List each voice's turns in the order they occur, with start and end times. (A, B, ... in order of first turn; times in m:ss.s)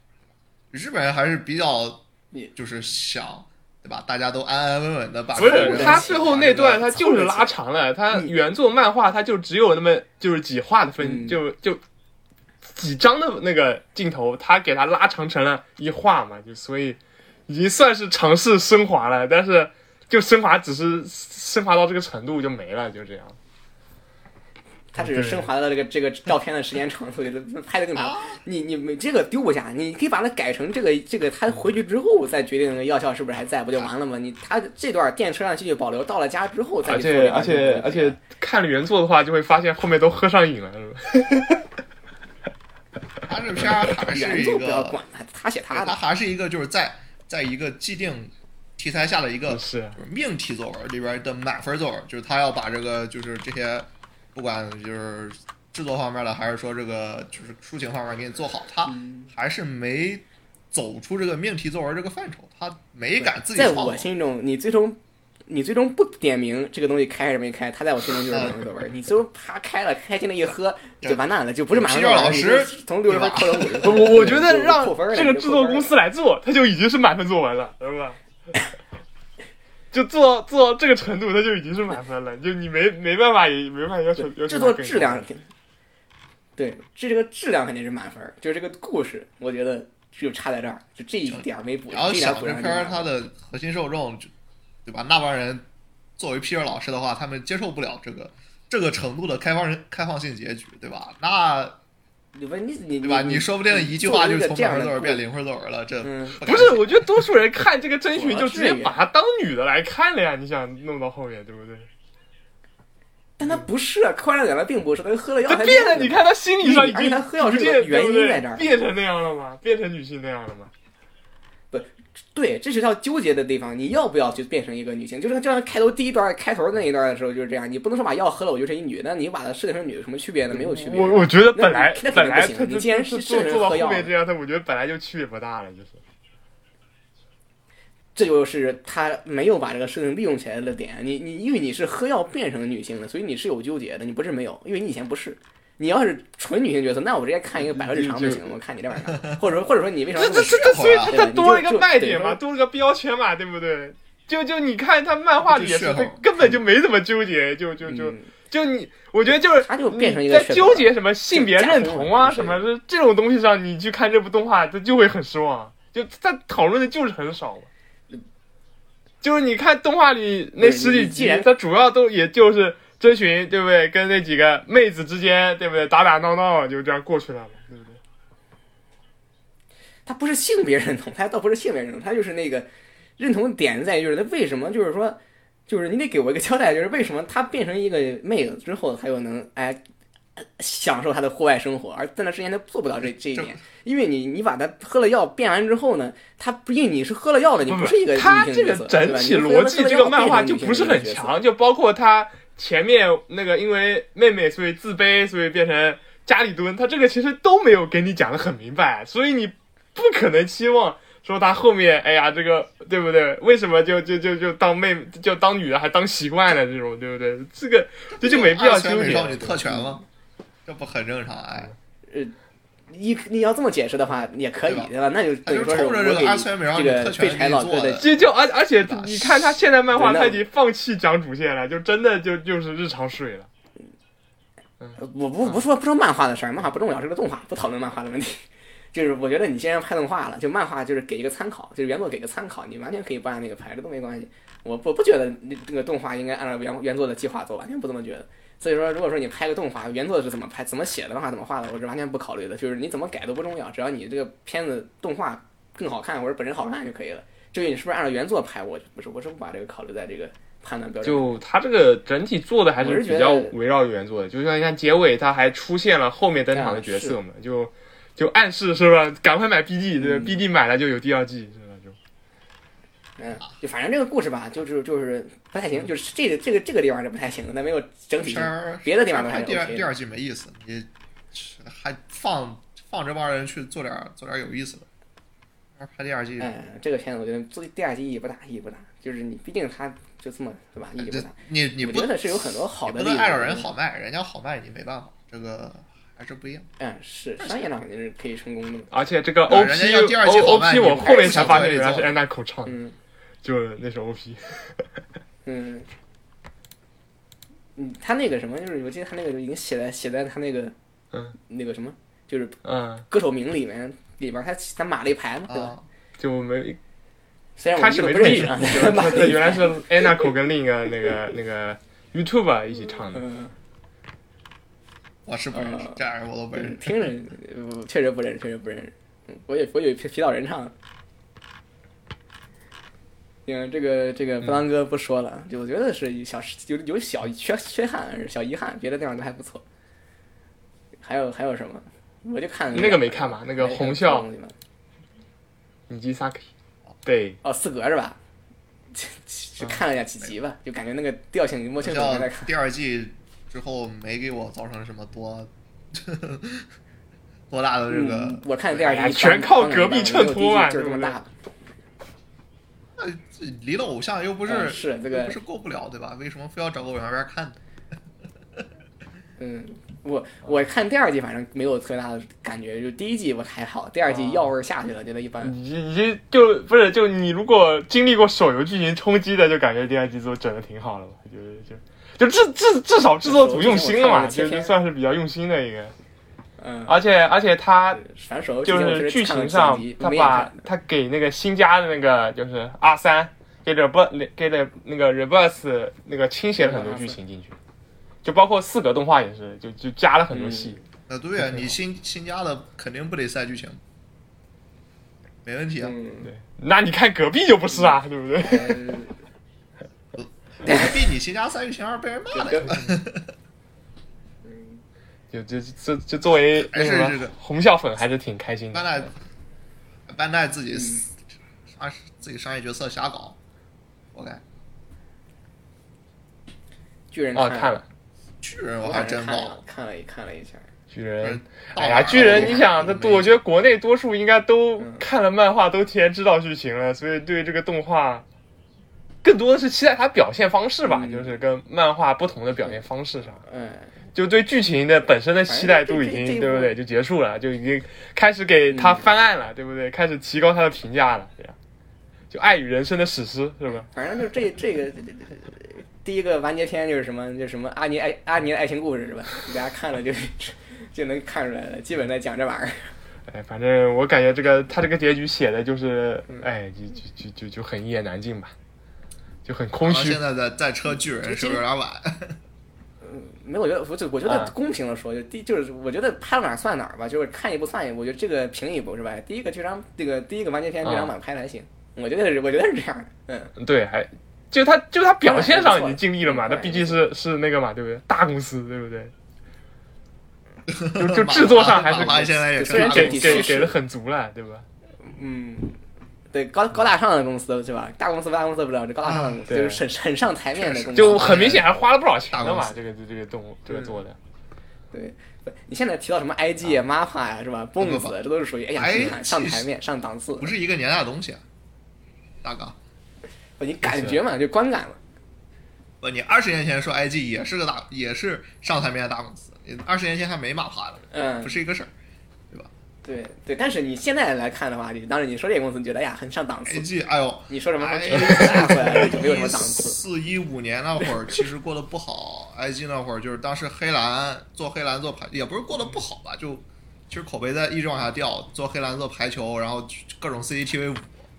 0:00.7-0:02.0 A
0:02.6-0:07.0 A
0:05.4-0:11.8 B
0:05.4-0:07.5 C
0:11.0-0:11.4 C
0:12.6-0:23.4 B
0:24.9-0:38.2 C
0:25.0-0:25.5 B
0:28.0-0:28.4 A
0:36.9-0:41.6 B
0:43.3-0:45.0 A
0:44.0-0:46.0 C
0:45.7-1:04.1 A
0:49.5-0:50.0 B
0:58.9-0:59.3 C
1:03.2-1:15.9 C
1:08.3-1:08.6 A
1:11.0-1:14.1 A
1:13.8-1:18.2 B
1:19.9-1:25.2 B
1:24.2-1:25.5 C
1:26.6-1:33.1 C
1:31.3-1:34.3 A
1:34.8-1:35.7 A
1:36.2-1:41.8 A
1:42.4-1:45.2 C
1:43.0-1:47.2 A
1:46.0-1:46.8 C
1:46.4-1:51.9 B
1:48.1-1:49.0 C
1:53.4-1:58.7 C
1:55.5-2:00.7 B
2:01.7-2:14.1 C
2:10.5-2:16.0 B
2:18.2-2:32.4 C
2:27.8-2:28.5 B
2:29.1-2:29.4 A
2:30.2-2:47.7 B
2:30.2-2:31.2 A
2:35.4-2:36.3 A
2:37.8-2:38.3 C
2:39.5-2:42.6 C
2:49.2-2:58.0 B
2:50.6-2:51.5 C
3:00.1-3:09.8 C
3:10.4-3:21.4 C
3:13.4-3:13.6 A
3:17.7-3:39.7 B
3:38.1-3:40.0 A
3:39.7-3:40.0 C
3:40.7-3:41.7 A
3:42.1-3:42.3 C
3:42.9-3:48.1 C
3:44.6-3:44.9 A
3:45.4-3:49.5 A
3:48.0-3:53.5 B
3:49.9-3:50.4 C
3:54.8-3:55.6 B
3:55.0-4:21.4 C
4:21.0-4:32.0 B
4:22.8-4:23.5 C
4:26.5-4:27.2 C
4:30.0-4:30.4 C
4:33.2-4:39.9 C
4:38.2-4:44.9 A
4:45.8-4:46.5 A
4:46.4-4:53.7 C
4:51.0-4:56.7 A
4:56.8-4:58.9 C
4:57.4-4:57.7 A
4:58.9-5:02.8 B
4:59.5-5:02.1 A
5:00.9-5:01.7 C
5:02.6-5:03.0 C
5:03.4-5:04.8 B
5:05.5-5:05.9 C
5:07.8-5:10.8 C
5:11.4-5:12.6 C
5:12.6-5:13.1 B
5:13.1-5:15.7 C
5:15.5-5:15.8 A
5:16.2-5:16.8 B
5:17.6-5:20.3 C
5:17.8-5:23.2 B
5:23.1-5:23.5 C
5:25.3-5:27.1 A
5:25.5-5:26.0 C
5:26.5-5:30.7 C
5:33.5-5:39.6 C
5:41.0-5:44.5 C
5:42.7-5:44.3 B
5:45.9-5:46.5 B
5:47.0-5:47.4 B
5:47.4-5:48.2 C
5:48.9-5:52.5 C
5:51.8-5:56.7 A
5:57.5-5:58.5 A
5:57.9-6:01.3 C
5:58.8-6:01.2 B
6:03.0-6:07.6 A
6:04.5-6:05.4 C
6:09.4-6:15.5 C
6:14.1-6:14.5 B
6:15.4-6:25.9 B
6:23.2-6:24.8 C
6:26.6-6:27.0 C
6:26.9-6:28.0 B
6:27.9-6:30.6 C
6:28.7-6:37.5 B
6:36.6-6:37.2 C
6:38.2-6:40.8 B
6:40.3-6:40.8 C
6:41.1-6:43.8 A
6:41.4-6:41.8 B
6:45.4-6:46.0 A
6:45.8-6:46.3 C
6:46.2-6:48.8 B
6:47.7-6:49.1 C
6:50.2-6:53.3 A
6:50.6-6:51.0 C
6:52.3-6:52.8 C
6:54.4-6:54.8 C
6:55.3-6:59.1 B
6:56.5-6:57.3 A
6:58.7-6:59.2 A
7:00.1-7:01.2 A
7:00.7-7:01.0 C
7:01.7-7:03.4 A
7:04.1-7:04.4 A
7:07.1-7:07.8 C
7:07.4-7:07.8 B
7:08.4-7:09.6 A
7:08.8-7:10.7 C
7:10.9-7:18.2 B
7:11.2-7:13.4 A
7:12.2-7:12.6 C
7:14.8-7:15.0 C
7:19.2-7:23.4 B
7:20.8-7:21.4 C
7:23.4-7:24.0 C
7:24.2-7:31.6 B
7:25.5-7:26.7 C
7:28.7-7:29.1 C
7:32.3-7:33.9 B
7:33.9-7:42.9 C
7:43.3-7:48.5 B
7:49.4-7:50.2 B
7:49.8-7:52.4 A
7:50.9-7:51.6 C
7:53.0-8:03.5 C
7:54.3-7:54.5 B
8:00.8-8:01.1 B
8:03.6-8:09.1 B
8:05.2-8:07.0 C
8:10.7-8:13.7 A
8:11.0-8:14.7 B
8:12.0-8:13.7 C
8:15.0-8:15.8 C
8:16.3-8:21.6 C
8:19.1-8:19.4 A
8:19.5-8:19.8 B
8:20.6-8:21.7 A
8:21.0-8:24.2 B
8:22.3-8:22.8 A
8:24.9-8:30.6 C
8:27.8-8:28.2 A
8:28.8-8:29.7 A
8:30.4-8:31.4 A
8:32.4-8:32.8 A
8:33.6-8:35.0 C
8:33.8-8:34.2 B
8:36.0-8:41.9 A
8:41.1-8:41.6 C
8:43.0-8:46.9 C
8:46.7-9:01.3 A
8:47.5-8:50.0 C